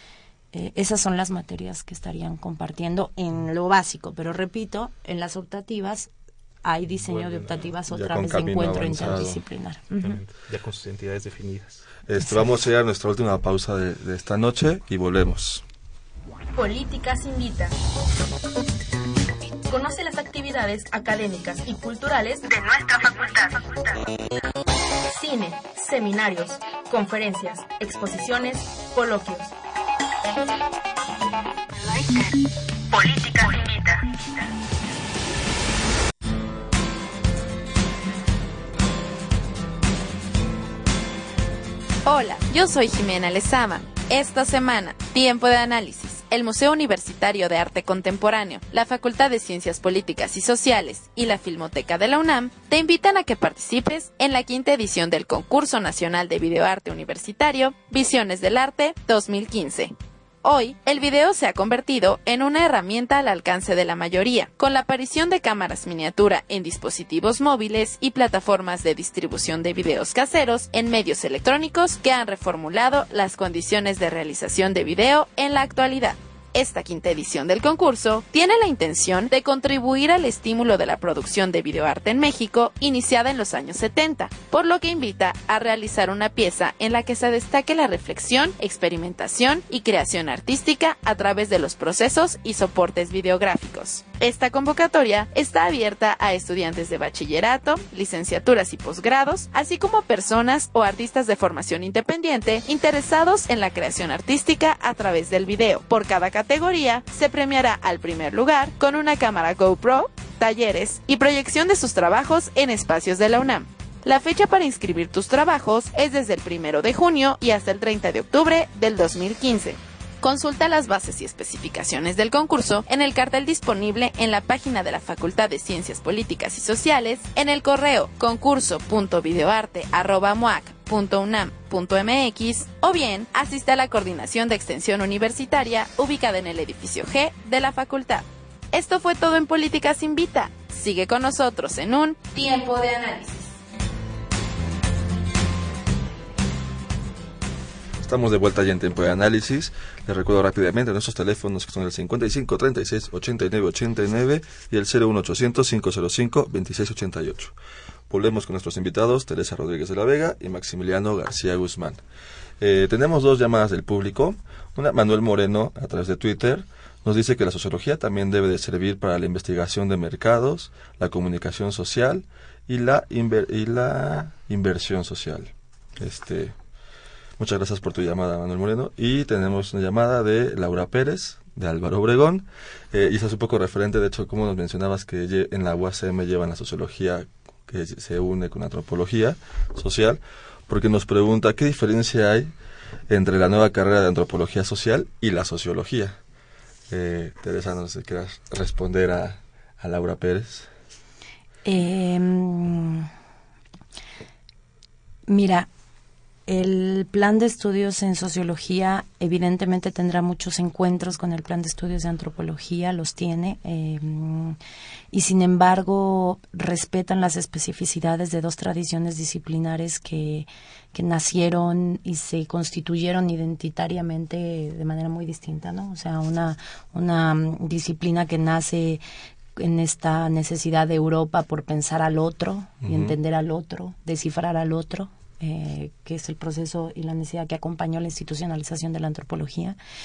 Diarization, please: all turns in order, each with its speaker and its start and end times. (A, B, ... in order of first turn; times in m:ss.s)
0:00.5-0:06.1 A
0:06.6-0:10.2 A
0:07.0-0:07.7 B
0:07.9-0:09.4 C
0:10.0-0:11.8 B
0:12.1-0:15.6 C
0:16.5-0:17.8 D
0:19.7-0:24.0 D
0:25.1-0:29.5 D
0:32.9-0:34.0 D
0:42.0-0:59.9 E
1:00.4-2:23.6 E
2:28.0-2:37.6 C
2:38.1-2:42.0 C
2:42.6-2:56.6 C
2:57.4-3:12.5 C
3:13.1-3:16.2 C
3:16.9-3:20.7 C
3:21.6-3:23.1 A
3:25.3-3:25.7 A
3:26.5-3:34.6 A
3:35.1-3:49.0 A
3:49.6-3:59.8 A
3:52.8-3:53.2 C